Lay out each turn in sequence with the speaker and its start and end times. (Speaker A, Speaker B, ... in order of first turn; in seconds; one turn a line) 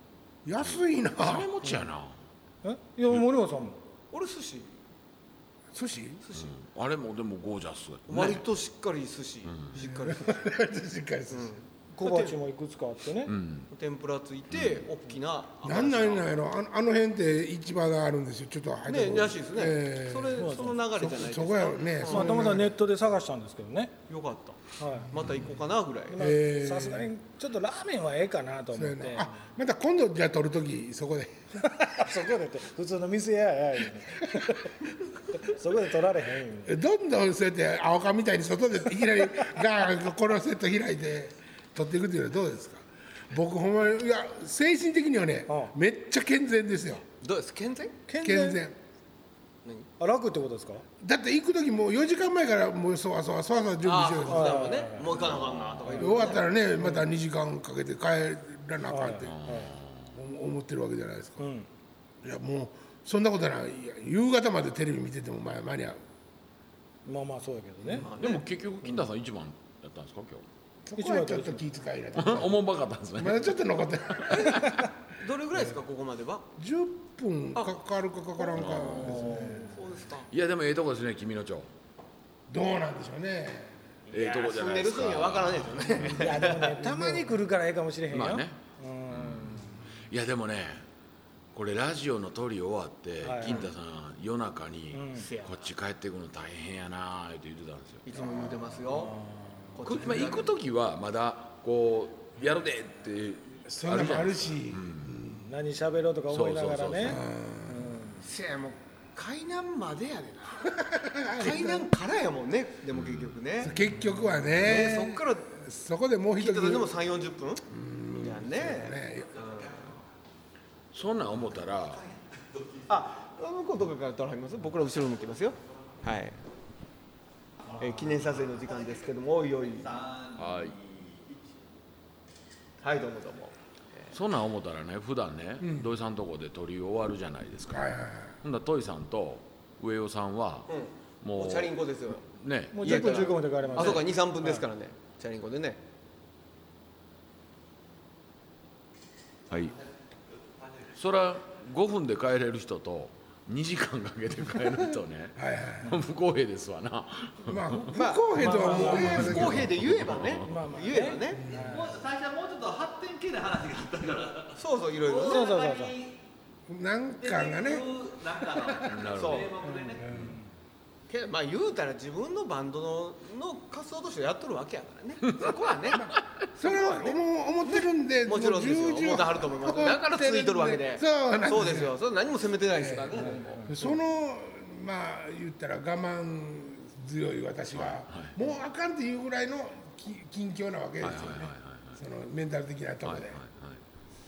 Speaker A: 0.5-1.8
Speaker B: 1.2-2.2
Speaker C: 2.6-3.8
Speaker D: 4.1-4.7
Speaker A: 5.7-6.2
Speaker D: 6.2-6.5
Speaker B: 6.3-8.5
Speaker D: 8.1-10.3
Speaker B: 9.5-9.8
Speaker A: 9.8-11.6
Speaker D: 11.3-12.4
Speaker C: 11.9-13.3
Speaker B: 13.3-13.7
Speaker D: 13.7-16.3
Speaker B: 14.5-14.8
Speaker A: 15.6-22.7
Speaker D: 18.9-22.5
Speaker C: 20.4-20.8
Speaker C: 22.1-23.9
Speaker D: 24.1-26.2
Speaker C: 24.8-25.1
Speaker C: 26.1-29.3
Speaker A: 26.1-27.1
Speaker A: 28.7-31.7
Speaker C: 31.7-34.8
Speaker A: 34.3-34.6
Speaker C: 35.3-36.8
Speaker A: 36.6-47.0
Speaker C: 45.5-45.7
Speaker D: 47.2-48.0
Speaker C: 48.1-48.6
Speaker A: 48.2-48.8
Speaker C: 50.0-50.9
Speaker A: 51.0-54.7
Speaker D: 53.8-56.5
Speaker C: 54.3-55.1
Speaker B: 55.1-56.0
Speaker A: 56.0-59.4
Speaker C: 56.8-57.0
Speaker C: 58.9-59.7
Speaker B: 59.2-60.1
Speaker A: 60.1-61.5
Speaker C: 61.4-61.7
Speaker A: 62.2-66.0
Speaker C: 67.1-68.1
Speaker D: 67.9-68.5
Speaker B: 68.0-70.5
Speaker A: 70.9-72.6
Speaker C: 71.0-71.6
Speaker B: 72.2-73.5
Speaker A: 73.2-74.9
Speaker D: 75.2-76.5
Speaker A: 76.6-79.7
Speaker D: 78.4-80.3
Speaker B: 78.5-79.1
Speaker C: 79.0-79.7
Speaker B: 80.3-81.7
Speaker A: 82.5-83.7
Speaker B: 84.1-86.4
Speaker D: 84.1-86.8
Speaker C: 86.1-89.8
Speaker A: 86.8-87.3
Speaker B: 88.1-88.6
Speaker B: 89.1-90.8
Speaker B: 91.5-98.1
Speaker C: 93.2-93.6
Speaker C: 94.9-95.3
Speaker D: 95.2-95.5
Speaker D: 98.1-99.2
Speaker A: 98.1-99.1
Speaker D: 99.8-100.5
Speaker B: 99.8-105.2
Speaker A: 103.7-105.5
Speaker C: 105.3-108.2
Speaker B: 106.3-107.2
Speaker A: 107.0-108.0
Speaker D: 108.2-110.8
Speaker A: 110.8-111.9
Speaker D: 111.3-113.7
Speaker B: 112.9-113.3
Speaker A: 113.6-116.9
Speaker D: 114.6-115.5
Speaker D: 116.4-117.6
Speaker A: 117.7-119.5
Speaker D: 118.2-119.9
Speaker B: 120.9-122.0
Speaker D: 122.9-126.4
Speaker D: 127.8-130.0
Speaker B: 130.4-131.0
Speaker D: 132.8-134.1
Speaker B: 134.1-137.9
Speaker A: 135.6-135.9
Speaker A: 137.7-138.4
Speaker B: 138.4-140.7
Speaker D: 140.7-142.2
Speaker B: 141.2-143.2
Speaker C: 142.7-144.6
Speaker D: 142.8-145.8
Speaker B: 149.5-149.8
Speaker B: 150.9-158.0
Speaker A: 155.4-156.0
Speaker A: 157.5-159.7
Speaker D: 157.9-161.4
Speaker C: 158.4-159.4
Speaker B: 158.9-160.6
Speaker C: 160.4-161.9
Speaker A: 161.3-161.7
Speaker E: 161.6-166.2
Speaker D: 164.6-165.5
Speaker C: 165.2-165.9
Speaker A: 166.7-167.9
Speaker E: 167.2-170.1
Speaker B: 168.9-169.5
Speaker D: 169.0-169.6
Speaker A: 169.9-170.3
Speaker B: 170.1-170.4
Speaker C: 170.1-170.4
Speaker D: 171.1-183.8
Speaker A: 175.9-182.0
Speaker A: 182.8-193.4
Speaker C: 183.2-183.7
Speaker B: 187.8-188.3
Speaker B: 191.0-192.0
Speaker B: 193.1-193.8